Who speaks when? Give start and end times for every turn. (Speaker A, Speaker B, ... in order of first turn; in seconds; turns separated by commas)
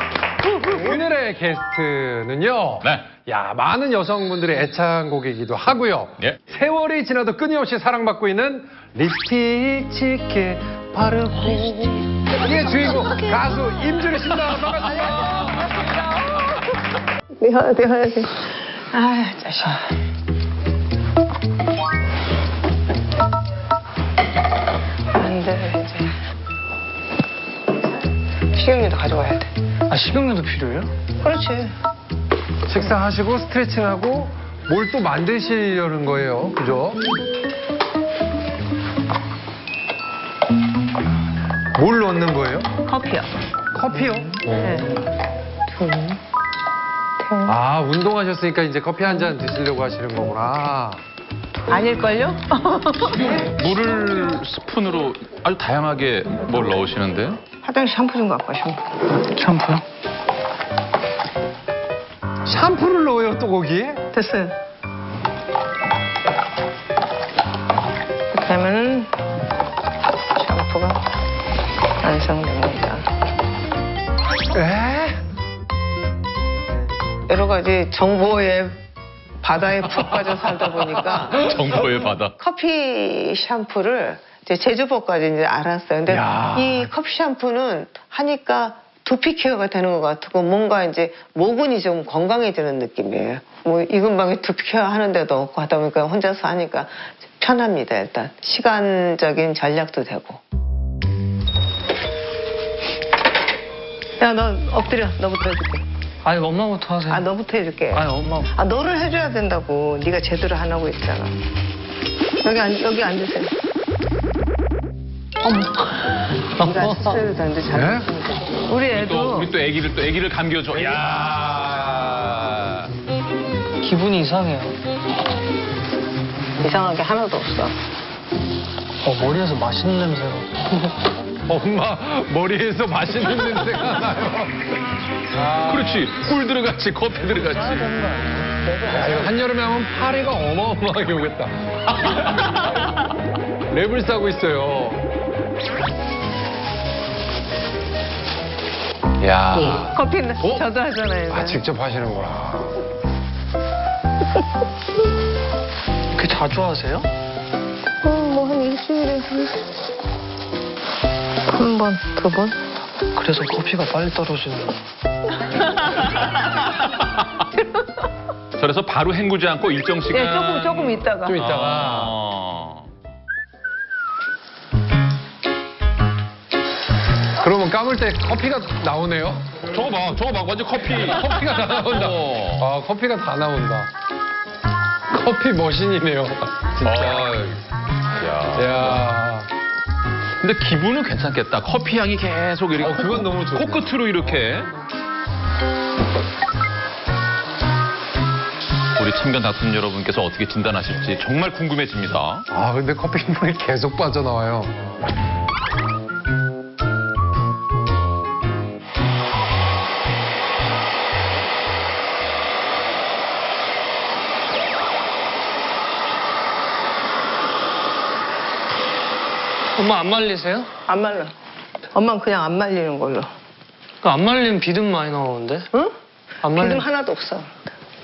Speaker A: 0.4-15.8, Speaker B: 2.8-3.1, Speaker C: 12.7-13.4, Speaker C: 17.4-19.8, Speaker C: 25.1-26.1, Speaker C: 28.5-29.5, Speaker D: 29.9-30.9, Speaker C: 31.2-31.7, Speaker A: 32.7-37.0, Speaker A: 41.7-42.7, Speaker C: 42.9-43.3, Speaker A: 43.7-44.9, Speaker C: 44.6-44.9, Speaker C: 45.7-46.2, Speaker C: 47.2-47.5, Speaker A: 47.4-51.0, Speaker C: 51.7-53.4, Speaker B: 53.3-57.4, Speaker C: 57.6-59.0, Speaker D: 59.3-59.8, Speaker A: 62.5-64.0, Speaker C: 64.1-64.5, Speaker C: 68.3-69.1, Speaker C: 70.3-71.0, Speaker C: 72.0-73.0, Speaker A: 74.5-75.2, Speaker C: 77.3-78.8, Speaker C: 79.4-100.4, Speaker B: 81.3-82.3, Speaker A: 86.1-86.9, Speaker C: 104.2-105.8, Speaker D: 106.2-107.3, Speaker C: 107.1-111.3, Speaker D: 107.9-108.5, Speaker C: 112.4-113.5, Speaker D: 115.4-116.0, Speaker D: 116.6-117.2, Speaker C: 116.6-119.5, Speaker A: 117.7-118.1, Speaker B: 118.9-122.9, Speaker D: 123.8-124.8, Speaker C: 126.6-127.7, Speaker D: 129.0-130.9, Speaker A: 131.4-134.7, Speaker A: 135.3-136.1, Speaker B: 135.7-138.0, Speaker D: 138.0-138.4, Speaker A: 138.7-142.2, Speaker A: 143.7-145.0, Speaker A: 149.2-150.6, Speaker C: 149.5-151.6, Speaker A: 151.3-152.7, Speaker D: 156.1-157.1, Speaker C: 158.0-159.6, Speaker C: 161.5-162.6, Speaker D: 163.2-164.8, Speaker B: 167.2-167.4, Speaker B: 168.6-172.9, Speaker C: 170.1-171.4, Speaker A: 171.2-172.2, Speaker A: 177.4-179.5, Speaker B: 179.7-182.7, Speaker A: 180.9-183.9, Speaker A: 185.1-187.6, Speaker B: 186.8-187.4, Speaker B: 188.2-189.0, Speaker A: 188.5-189.5, Speaker B: 190.4-194.7, Speaker A: 192.8-194.4, Speaker B: 199.0-202.4, Speaker A: 202.5-204.8, Speaker D: 219.8-220.7, Speaker C: 220.9-221.3, Speaker C: 221.9-223.3, Speaker D: 224.0-225.7, Speaker D: 226.4-226.9, Speaker C: 226.5-227.5